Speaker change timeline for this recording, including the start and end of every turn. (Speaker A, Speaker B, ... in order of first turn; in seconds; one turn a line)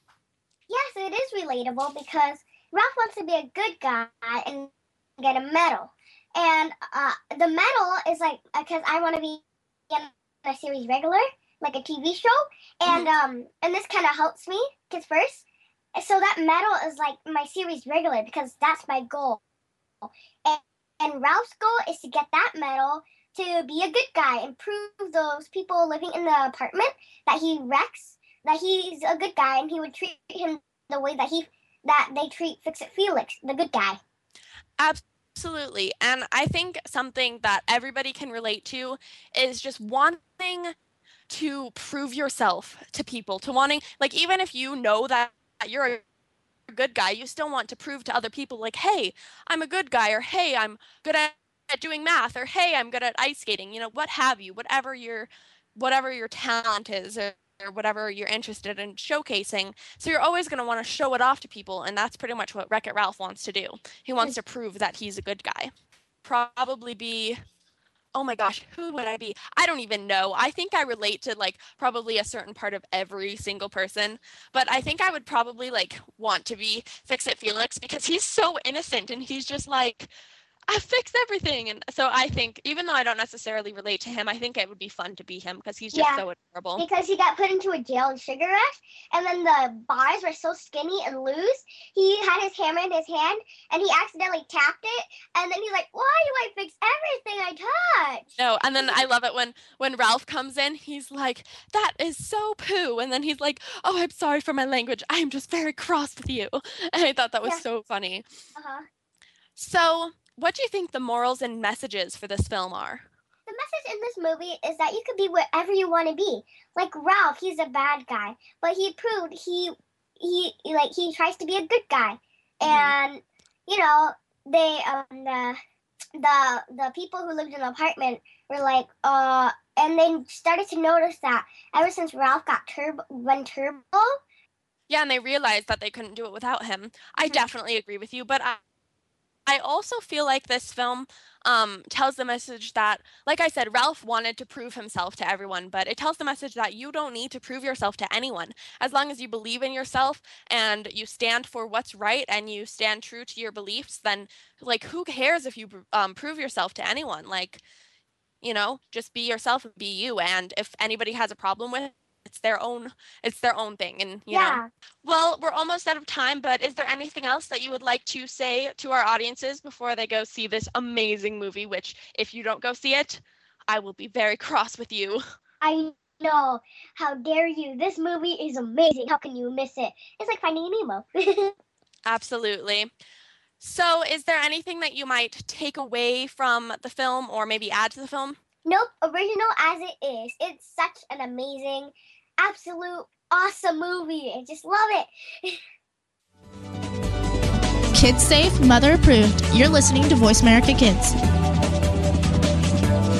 Speaker A: 0.7-19.4
Speaker A: 20.1-34.0
Speaker B: 34.8-40.7
Speaker B: 41.3-46.0
Speaker B: 46.7-65.7
Speaker B: 66.2-67.4
Speaker B: 68.1-80.1
Speaker B: 80.7-86.8
Speaker A: 85.9-86.2
Speaker A: 86.8-98.2
Speaker B: 98.4-108.2
Speaker A: 108.5-108.8
Speaker B: 109.5-113.0
Speaker A: 113.5-125.6
Speaker B: 122.6-122.9
Speaker A: 126.2-134.2
Speaker B: 134.9-138.6
Speaker B: 139.5-157.6
Speaker B: 158.4-175.2
Speaker A: 164.3-164.7
Speaker A: 175.6-181.5
Speaker B: 182.1-182.9
Speaker B: 183.6-188.4
Speaker A: 188.6-195.6
Speaker C: 197.9-201.1